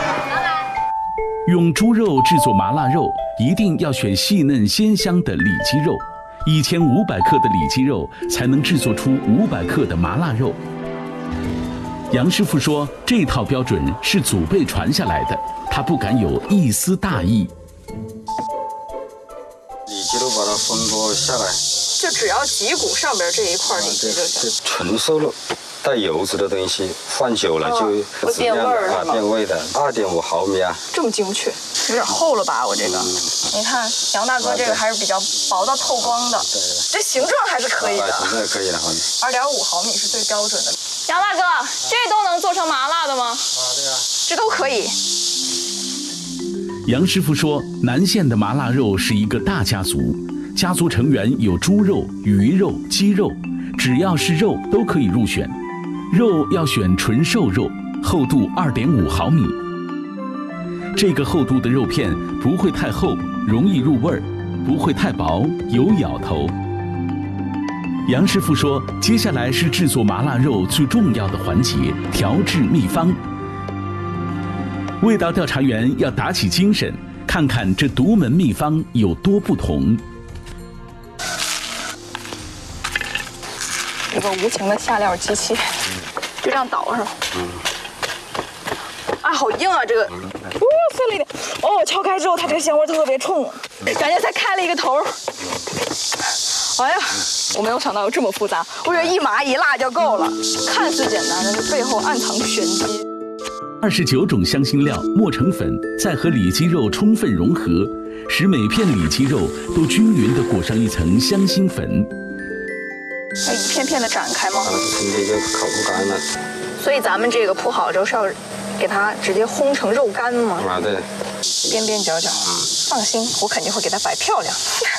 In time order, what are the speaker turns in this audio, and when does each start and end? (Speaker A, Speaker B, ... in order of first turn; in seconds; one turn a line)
Speaker A: 1.4-10.6
Speaker A: 12.1-17.5
Speaker B: 19.9-21.6
Speaker C: 21.9-24.5
Speaker B: 23.7-30.8
Speaker C: 27.6-29.2
Speaker C: 30.9-38.4
Speaker B: 32.8-33.3
Speaker B: 34.4-34.8
Speaker B: 36.0-36.8
Speaker B: 37.8-39.1
Speaker C: 39.2-43.5
Speaker C: 44.2-44.9
Speaker A: 46.9-55.5
Speaker A: 56.1-59.6
Speaker A: 60.9-66.5
Speaker A: 68.1-73.2
Speaker A: 75.0-80.0
Speaker C: 84.1-85.7
Speaker C: 86.4-87.1
Speaker B: 87.3-87.6
Speaker C: 89.2-95.1
Speaker C: 96.7-103.0
Speaker A: 103.8-112.1
Speaker C: 113.4-114.7
Speaker B: 114.6-116.2
Speaker C: 116.8-120.7
Speaker B: 120.6-121.0
Speaker C: 121.6-124.6